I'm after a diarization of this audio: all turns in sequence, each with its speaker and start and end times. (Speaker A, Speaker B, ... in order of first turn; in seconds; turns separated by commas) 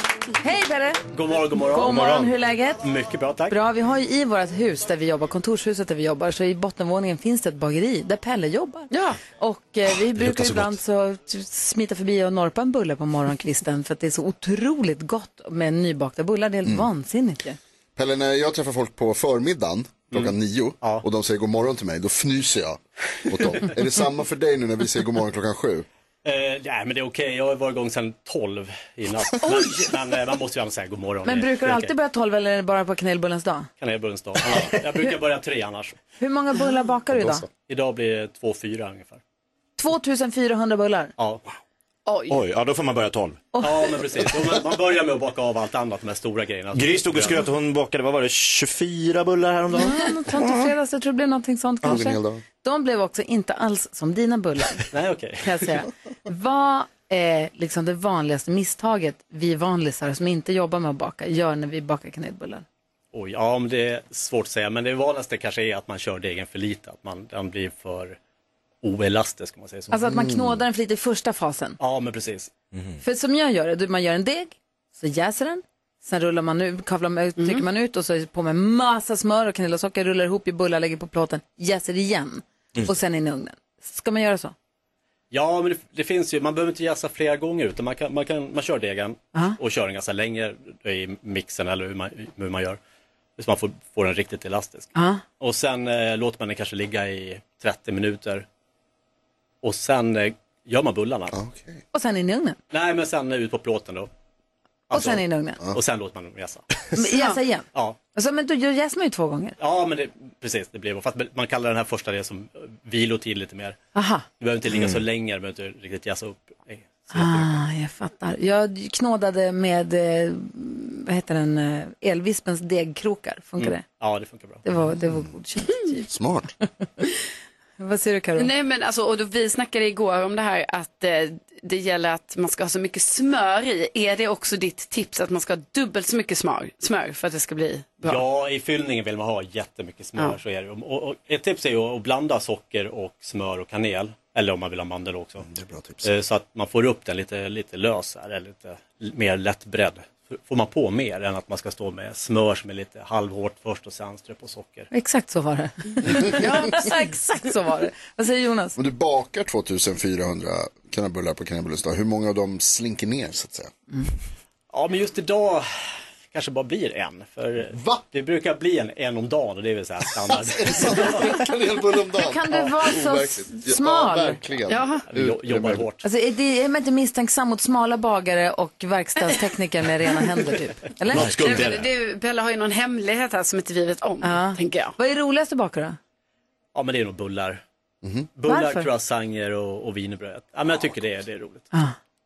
Speaker A: 0.4-1.0, Speaker B: 1.1-3.6, Speaker A: 1.6-2.8, Speaker A: 3.5-17.6, Speaker C: 8.9-9.2, Speaker D: 10.1-10.8, Speaker E: 18.0-25.9, Speaker B: 20.1-21.0, Speaker B: 26.2-31.9, Speaker C: 29.5-29.9, Speaker A: 31.2-33.7, Speaker B: 33.8-36.0, Speaker A: 36.2-37.5, Speaker B: 37.7-39.2, Speaker A: 39.8-41.1, Speaker B: 41.2-41.4, Speaker C: 42.1-42.4, Speaker D: 42.3-43.4, Speaker B: 43.6-47.4, Speaker D: 46.8-50.6, Speaker A: 49.7-54.9, Speaker E: 51.8-52.4, Speaker B: 54.9-55.7, Speaker A: 55.4-62.6, Speaker B: 63.1-68.2, Speaker B: 68.8-69.9, Speaker A: 69.9-71.8, Speaker E: 70.0-70.6, Speaker B: 71.8-72.5, Speaker A: 73.0-84.5, Speaker C: 77.4-77.7, Speaker B: 85.3-92.8, Speaker B: 93.4-98.5, Speaker A: 95.0-95.2, Speaker B: 99.6-101.4, Speaker E: 101.3-101.8, Speaker A: 101.9-102.6, Speaker B: 102.7-104.1, Speaker A: 104.9-105.6, Speaker B: 104.9-106.9, Speaker A: 107.0-109.6, Speaker B: 109.6-113.8, Speaker A: 114.0-114.2, Speaker B: 114.4-117.6, Speaker D: 114.7-115.0, Speaker A: 117.1-123.8, Speaker B: 123.6-124.6, Speaker A: 124.6-126.1, Speaker E: 126.1-126.5, Speaker A: 127.8-128.5, Speaker C: 128.4-138.2, Speaker B: 138.0-145.5, Speaker E: 145.5-146.1, Speaker B: 146.0-154.9, Speaker A: 154.9-158.8, Speaker C: 156.3-156.9, Speaker E: 158.8-163.7, Speaker B: 164.7-165.7, Speaker B: 166.3-171.4, Speaker E: 167.7-168.0, Speaker E: 170.3-175.8, Speaker A: 172.2-174.4, Speaker C: 174.7-175.0, Speaker B: 175.1-176.1, Speaker A: 176.0-181.7, Speaker D: 181.1-181.9, Speaker C: 181.2-184.9, Speaker A: 184.2-186.0, Speaker B: 186.7-187.6, Speaker B: 188.4-191.7, Speaker A: 188.5-188.9